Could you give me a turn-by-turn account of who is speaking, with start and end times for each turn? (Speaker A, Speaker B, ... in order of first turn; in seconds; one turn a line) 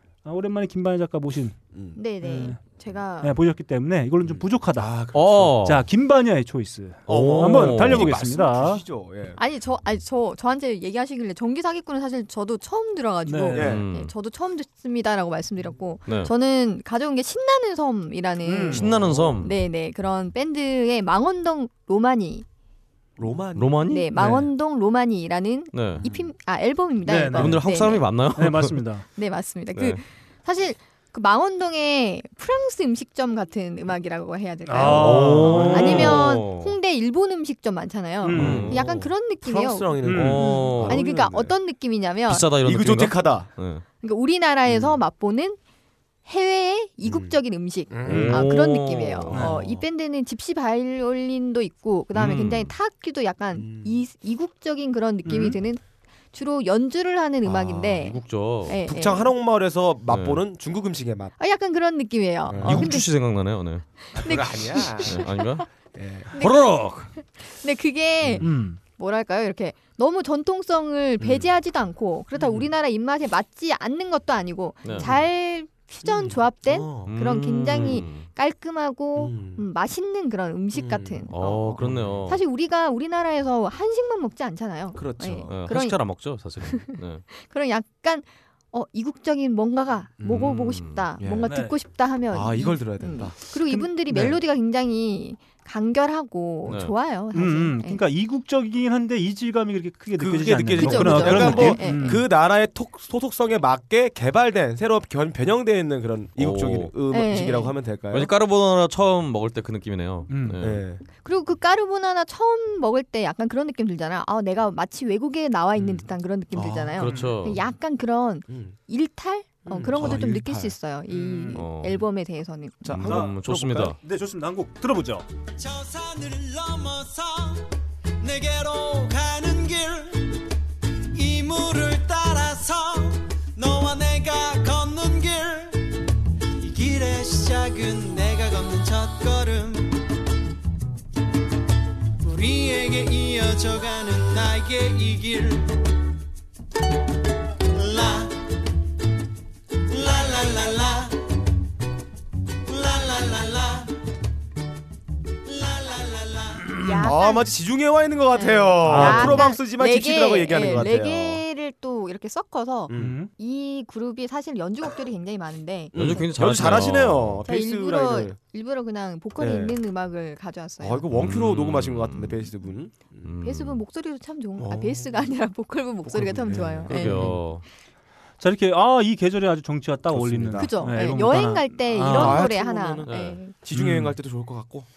Speaker A: 0.2-1.6
Speaker B: 1.7-2.0
Speaker C: 1.9-3.4
Speaker A: 2.2-2.6
Speaker A: 3.2-4.9
Speaker B: 4.2-5.6
Speaker D: 5.1-5.8
Speaker A: 5.6-8.8
Speaker D: 7.1-8.1
Speaker B: 7.1-9.4
Speaker C: 9.3-18.9
Speaker A: 13.2-13.6
Speaker B: 13.5-13.8
Speaker D: 13.6-14.1
Speaker D: 16.1-16.3
Speaker A: 18.4-18.9
Speaker D: 18.7-19.5
Speaker B: 18.8-19.5
Speaker C: 19.4-22.4
Speaker B: 23.2-23.8
Speaker D: 23.6-24.1
Speaker C: 23.9-28.1
Speaker A: 24.1-24.5
Speaker D: 25.7-26.0
Speaker B: 25.9-26.3
Speaker A: 27.1-27.7
Speaker D: 27.3-28.8
Speaker A: 28.4-29.0
Speaker C: 29.1-42.5
Speaker D: 29.7-30.0
Speaker A: 34.6-36.2
Speaker D: 34.8-36.7
Speaker B: 34.9-36.2
Speaker A: 38.2-38.7
Speaker B: 38.3-41.5
Speaker D: 38.3-39.1
Speaker A: 40.0-40.4
Speaker D: 40.1-41.0
Speaker D: 42.3-43.8
Speaker B: 42.6-43.5
Speaker C: 44.0-45.6
Speaker B: 44.6-45.0
Speaker C: 46.2-59.3
Speaker B: 47.0-47.4
Speaker B: 47.9-48.5
Speaker D: 48.0-49.4
Speaker A: 49.3-49.6
Speaker B: 49.3-49.9
Speaker D: 52.1-52.7
Speaker B: 53.5-54.0
Speaker A: 55.2-55.6
Speaker B: 57.4-58.1
Speaker D: 57.7-58.8
Speaker B: 58.8-61.3
Speaker D: 60.1-60.4
Speaker C: 61.4-63.1
Speaker B: 62.5-62.9
Speaker D: 62.6-63.8
Speaker C: 64.1-65.6
Speaker B: 64.1-65.2
Speaker D: 65.0-65.6
Speaker B: 65.9-66.3
Speaker C: 66.3-86.0
Speaker D: 66.4-67.1
Speaker B: 68.2-68.5
Speaker A: 68.4-68.8
Speaker B: 71.2-71.5
Speaker B: 72.3-72.7
Speaker D: 74.8-75.1
Speaker B: 74.9-75.2
Speaker B: 76.0-77.1
Speaker D: 77.0-78.3
Speaker B: 77.7-78.1
Speaker B: 79.2-79.7
Speaker B: 80.7-82.3
Speaker D: 81.3-82.4
Speaker B: 85.0-85.6
Speaker D: 85.5-87.2
Speaker C: 86.6-98.0
Speaker B: 90.2-90.5
Speaker D: 90.2-91.1
Speaker B: 91.2-91.5
Speaker A: 91.4-91.8
Speaker B: 92.3-93.4
Speaker A: 93.7-94.4
Speaker D: 96.7-96.9
Speaker A: 97.3-102.2
Speaker B: 100.2-108.3
Speaker C: 100.8-102.2
Speaker D: 106.4-106.9
Speaker C: 107.1-107.7
Speaker D: 108.1-110.8
Speaker A: 110.3-110.6
Speaker B: 110.6-111.0
Speaker C: 111.1-122.9
Speaker B: 115.7-116.9
Speaker D: 116.9-117.6
Speaker A: 117.0-117.3
Speaker B: 118.5-118.7
Speaker B: 119.7-120.8
Speaker A: 121.1-121.6
Speaker D: 121.5-122.0
Speaker B: 122.8-124.0
Speaker D: 122.9-124.0
Speaker A: 123.0-123.4
Speaker A: 123.9-125.2
Speaker E: 125.6-127.7
Speaker E: 128.2-130.4
Speaker E: 131.1-136.0
Speaker E: 136.6-140.1
Speaker E: 142.2-145.8
Speaker E: 147.7-148.5
Speaker E: 149.9-151.2
Speaker E: 152.7-153.9
Speaker E: 155.4-156.8
Speaker C: 156.8-157.5
Speaker B: 156.9-161.4
Speaker C: 158.3-166.3
Speaker A: 158.8-159.5
Speaker B: 162.9-163.2
Speaker A: 162.9-163.3
Speaker B: 165.9-168.4
Speaker D: 165.9-167.4
Speaker C: 167.4-171.0
Speaker B: 169.4-169.8
Speaker B: 170.8-173.3
Speaker D: 171.1-172.4
Speaker D: 173.2-173.8
Speaker C: 173.4-177.4
Speaker B: 174.6-175.3
Speaker B: 176.0-177.3
Speaker D: 176.9-177.6
Speaker A: 177.0-177.4
Speaker A: 178.4-182.5
Speaker B: 180.1-180.7
Speaker C: 180.6-183.5
Speaker B: 181.9-184.9
Speaker D: 183.1-183.4
Speaker A: 183.7-184.1